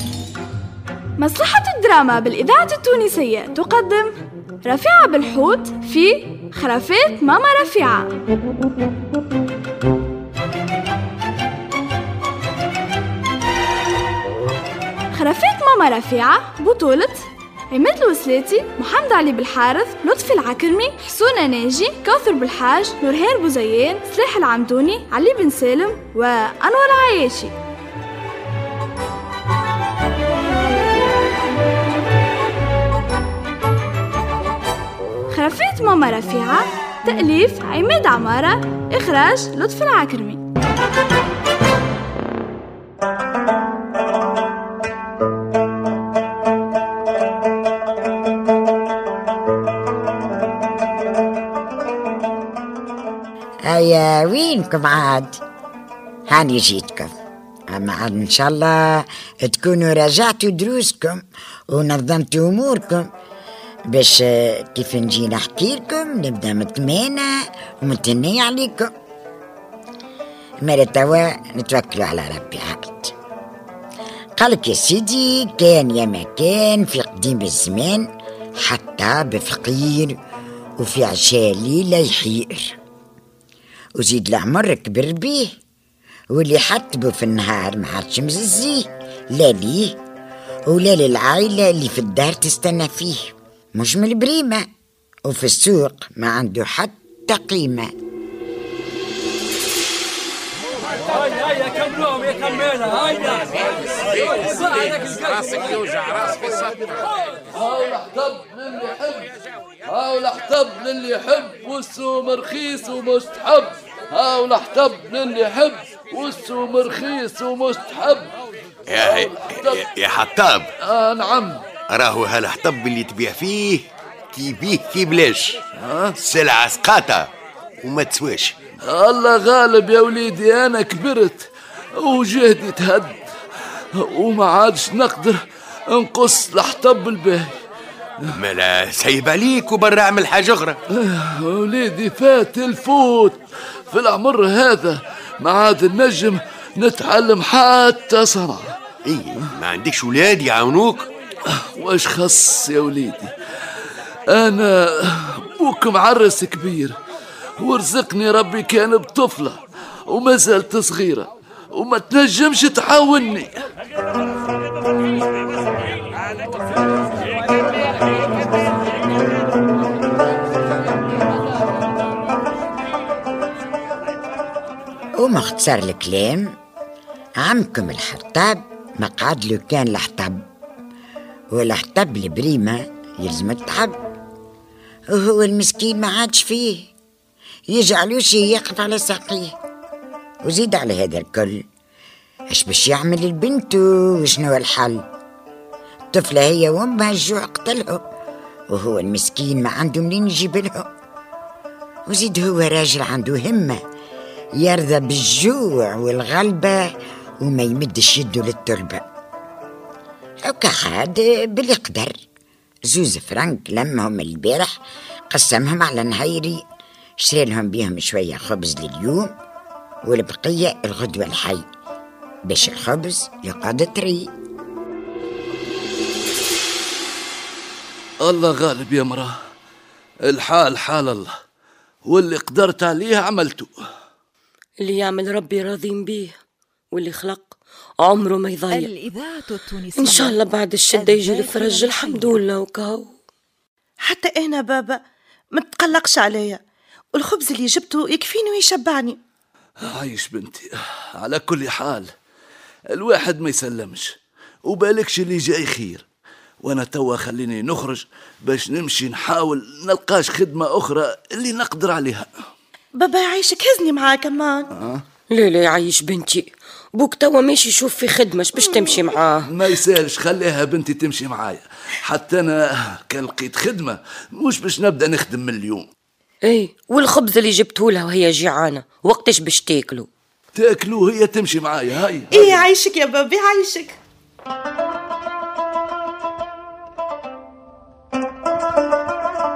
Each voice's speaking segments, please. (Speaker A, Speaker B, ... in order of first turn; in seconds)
Speaker A: 1.2-4.1, 4.7-8.1, 15.1-27.5, 35.3-40.4
Speaker B: 53.6-55.4, 56.3-57.1, 57.7-63.1, 63.9-68.9, 70.6-73.1, 74.4-78.1, 78.6-80.2, 80.8-82.8, 84.0-85.5, 86.3-90.0, 90.7-94.6, 95.2-97.9, 175.2-176.6, 177.4-180.4, 181.5-183.9, 185.1-186.9, 187.7-189.6, 190.4-191.6, 192.5-195.1, 196.1-198.0, 198.7-200.9, 202.1-203.8, 204.6-206.9, 207.4-209.0, 210.5-212.2, 212.9-214.7, 215.3-216.6, 217.2-219.3, 220.1-221.7, 222.5-224.3
Speaker C: 101.3-107.0, 107.5-109.3, 109.8-118.3, 119.0-119.8, 120.8-121.7, 125.8-126.1, 128.8-133.2, 133.9-135.4, 135.9-137.6, 140.9-148.7, 151.5-153.3, 154.3-157.0, 157.6-163.6, 228.2-229.3, 230.2-231.3, 232.1-233.7, 249.8-252.1, 252.9-256.1, 256.6-262.3, 264.7-265.0, 269.4-275.9, 280.5-282.6
Speaker D: 118.9-120.7, 121.9-125.6, 126.2-127.3, 127.8-128.6, 138.3-140.8, 149.1-151.1
Speaker E: 234.8-236.3, 236.9-238.9, 239.9-243.1, 265.3-269.5, 276.4-280.1
Speaker F: 238.7-242.4
Speaker G: 244.0-246.6, 247.1-249.2, 262.9-264.7, 282.3-284.0